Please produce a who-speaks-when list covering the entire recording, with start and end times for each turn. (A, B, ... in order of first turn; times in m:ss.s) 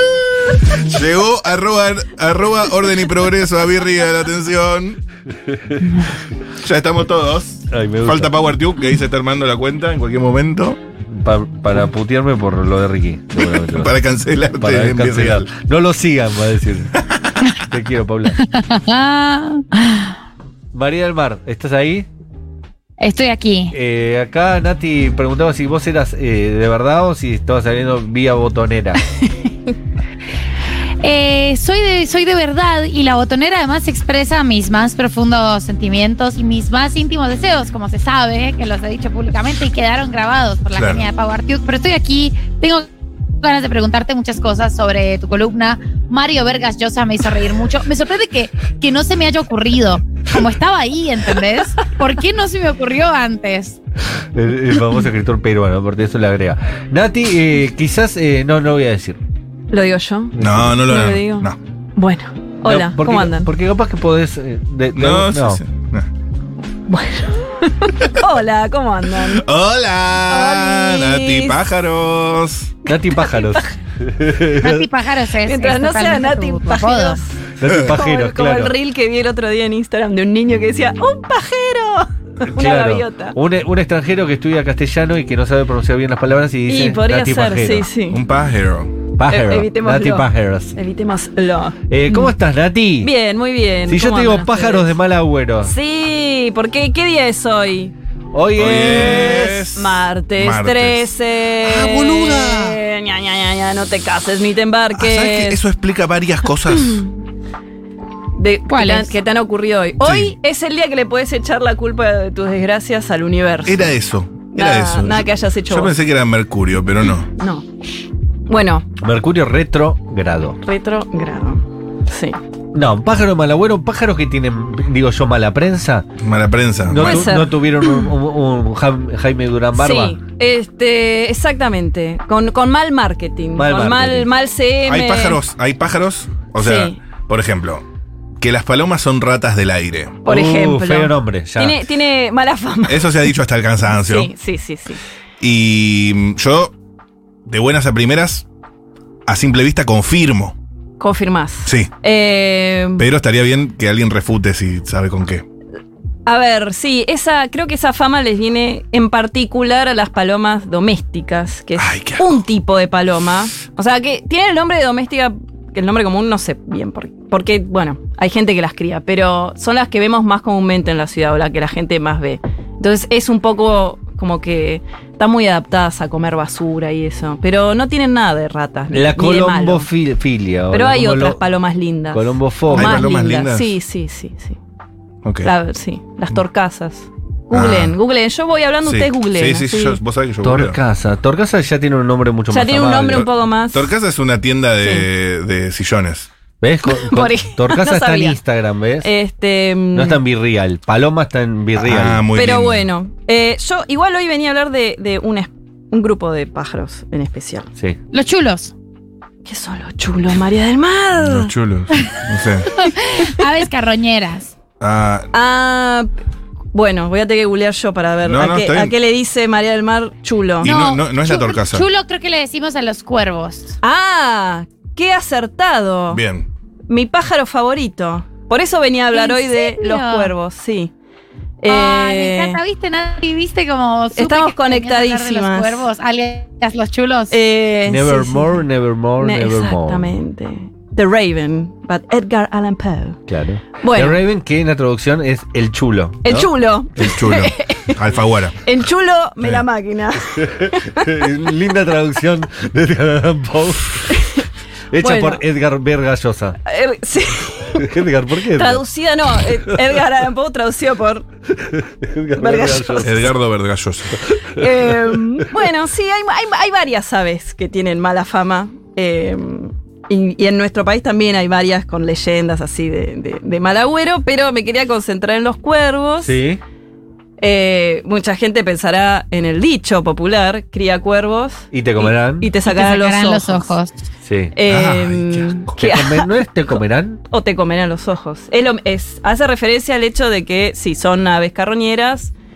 0:00.6-0:05.0 A
0:05.5-0:06.0 B
0:06.6-0:10.8 A
0:07.7-0:08.4 B
0:11.1-0:13.9 B
0:13.4-0:15.5 A
0:14.6-0:16.9 B
0:17.6-0:18.4 B
0:18.4-0:20.1 C
0:20.7-0:22.1 B
0:23.0-0:23.7 C
0:23.7-0:29.0 B
0:31.0-0:42.9 C
0:40.7-0:41.0 A
0:43.4-0:53.8 C
0:54.3-0:59.2 B
0:59.7-1:03.5 D
1:00.4-1:01.6 A
1:00.4-1:00.7 B
1:02.6-1:05.6 B
1:04.9-1:06.1 A
1:06.9-1:09.4 D
1:09.3-1:12.8 A
1:10.3-1:11.6 D
1:12.9-1:13.6 D
1:12.9-1:14.8 B
1:14.6-1:17.2 C
1:15.4-1:23.4 D
1:17.6-1:18.7 B
1:22.6-1:27.9 B
1:26.6-1:28.2 D
1:28.1-1:29.0 A
1:29.2-1:30.7 B
1:29.3-1:32.3 D
1:31.9-1:33.1 B
1:33.0-1:35.0 D
1:33.9-1:35.7 B
1:35.6-1:37.9 D
1:38.3-1:39.7 B
1:38.6-1:41.1 A
1:38.8-1:45.6 D
1:41.6-1:42.8 A
1:44.9-1:47.0 A
1:46.7-1:47.0 D
1:48.4-1:53.9 D
1:48.7-1:49.1 C
1:50.0-1:50.3 A
1:53.6-1:57.3 A
1:54.5-1:56.0 D
1:57.4-1:57.6 D
1:58.5-1:58.8 D
1:59.0-2:00.6 B
2:00.6-2:02.4 D
2:02.7-2:06.1 B
2:06.2-2:07.3 A
2:06.8-2:10.2 B
2:07.0-2:08.1 D
2:09.7-2:15.4 D
2:13.6-2:14.3 B
2:14.8-2:17.8 A
2:16.6-2:17.0 D
2:18.4-2:20.2 A
2:20.2-2:23.2 D
2:20.2-2:21.8 B
2:22.9-2:24.3 A
2:24.0-2:25.0 D
2:25.4-2:26.7 A
2:27.4-2:28.4 A
2:29.2-2:30.6 A
2:31.0-2:33.1 D
2:33.0-2:35.4 A
2:36.2-2:59.9 D
2:41.8-2:42.4 A
2:58.9-3:01.4 B
3:00.7-3:04.6 D
3:02.1-3:03.0 B
3:02.7-3:03.8 A
3:05.2-3:05.5 A
3:05.4-3:10.0 D
3:07.5-3:08.0 A
3:08.8-3:10.8 A
3:10.4-3:13.2 B
3:12.5-3:13.9 D
3:13.1-3:16.3 A
3:14.8-3:15.1 D
3:16.6-3:19.1 B
3:16.8-3:18.4 D
3:19.0-3:20.2 D
3:19.9-3:22.2 B
3:21.8-3:22.9 A
3:22.3-3:27.7 D
3:28.1-3:28.7 C
3:29.4-3:31.5 D
3:31.2-3:32.7 A
3:32.7-3:34.5 C
3:34.8-3:35.3 A
3:35.3-3:36.1 D
3:36.7-3:40.8 D
3:38.2-3:38.9 A
3:40.6-3:41.8 A
3:40.6-3:43.8 C
3:43.8-3:46.2 D
3:46.1-3:46.5 A
3:46.9-3:50.9 D
3:49.1-3:50.3 C
3:51.6-3:52.6 D
3:51.7-3:57.4 C
3:54.2-3:55.9 D
3:57.3-3:58.6 D
3:57.8-4:00.1 B
3:59.2-4:03.2 D
4:03.3-4:06.5 B
4:03.8-4:04.2 D
4:06.2-4:08.0 D
4:07.0-4:08.6 A
4:08.6-4:11.1 D
4:10.4-4:14.2 B
4:14.9-4:16.6 B
4:15.0-4:15.4 D
4:16.6-4:18.0 D
4:17.8-4:18.8 B
4:18.5-4:21.3 D
4:21.7-4:23.3 B
4:22.3-4:23.3 D
4:23.0-4:24.2 A
4:24.5-4:36.4 D
4:36.2-4:36.6 B
4:37.4-4:43.7 D
4:41.7-4:42.5 B
4:42.6-4:44.0 C
4:44.2-4:44.5 B
4:44.5-4:52.3 D
4:44.7-4:45.8 A
4:45.8-4:47.2 B